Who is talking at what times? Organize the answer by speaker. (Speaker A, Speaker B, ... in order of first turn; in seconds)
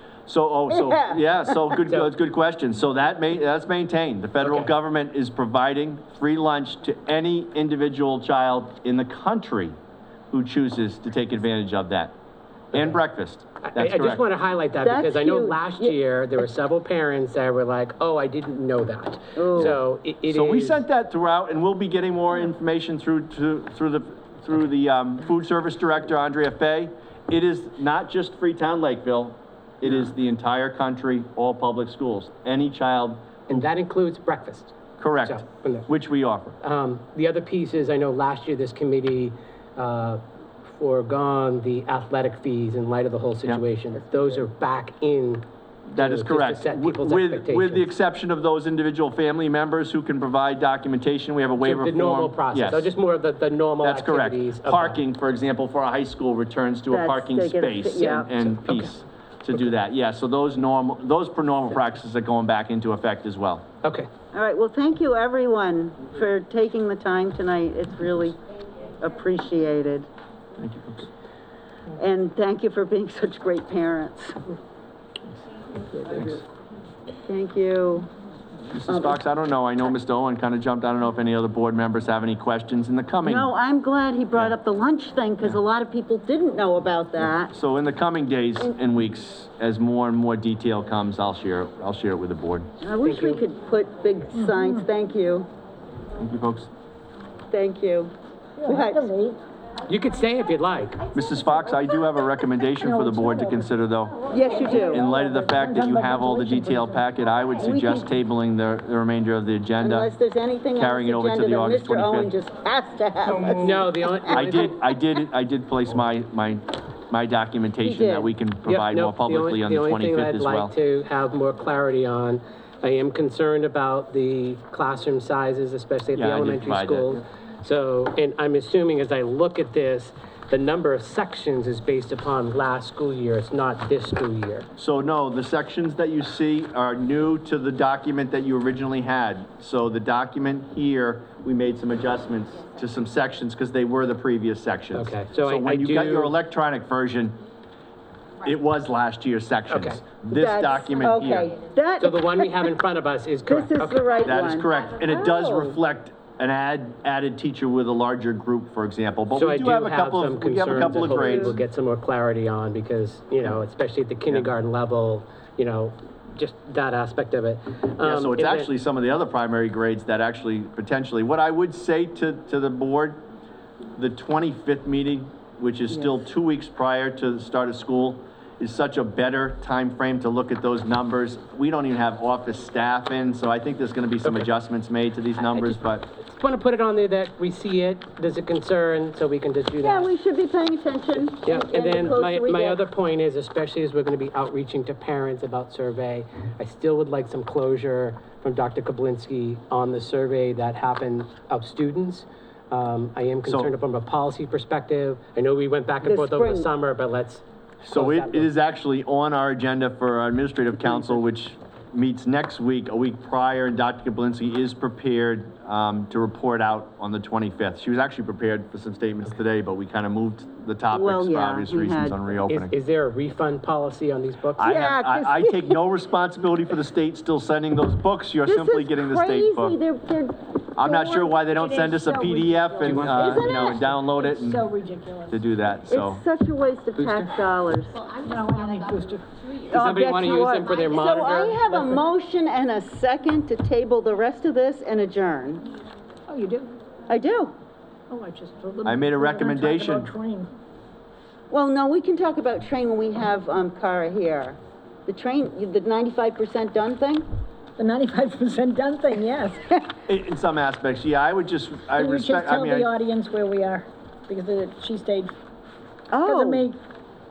Speaker A: 0.3-9.8, 10.3-12.1, 12.7-14.2, 20.2-33.6, 35.0-36.6, 45.9-52.9, 53.8-63.6, 70.6-71.1, 75.9-76.4, 78.7-83.5, 87.5-92.7, 96.2-96.7, 101.1-104.2, 104.9-110.1, 110.7-112.3, 114.3-120.7, 126.1-127.2, 134.8-147.4, 148.4-151.5, 154.2-161.6, 168.0-173.2, 174.0-186.1, 203.4-203.7, 207.8-222.7, 224.6-229.8, 230.8-234.6, 235.3-236.2, 248.8-250.1, 260.1-262.9
Speaker B: 4.4-4.7, 13.6-20.8, 33.5-35.9, 36.6-45.4, 46.0-47.9, 51.6-55.0, 63.8-64.1, 93.0-93.4, 99.9-101.0, 113.3-114.8, 118.7-134.7, 144.9-146.3, 149.7-150.0, 152.0-154.2, 159.3-168.7, 185.5-190.1, 191.3-208.5, 222.5-224.7, 232.8-233.7, 236.9-237.3, 239.7-242.0
Speaker C: 14.8-15.9, 19.4-19.8, 56.9-58.5, 64.3-68.4, 69.0-70.1, 72.0-74.4, 77.3-78.1, 78.9-79.2, 83.2-87.5, 92.8-95.5, 97.5-98.1, 98.6-99.1, 104.3-105.0, 107.6-108.1, 109.8-114.3, 117.8-118.3, 150.3-152.7, 153.5-155.8, 160.7-161.6, 189.8-192.8, 206.0-206.7, 220.9-222.2, 224.6-225.8, 228.4-233.8, 235.9-238.0, 239.7-245.7, 247.1-247.5, 251.5-257.2, 266.1-266.7
Speaker D: 94.3-94.8, 98.6-99.4, 102.8-103.7, 104.3-107.0, 232.9-235.4, 238.2-239.3, 246.3-246.8, 248.1-250.5, 257.8-259.8, 261.9-265.3, 266.2-266.8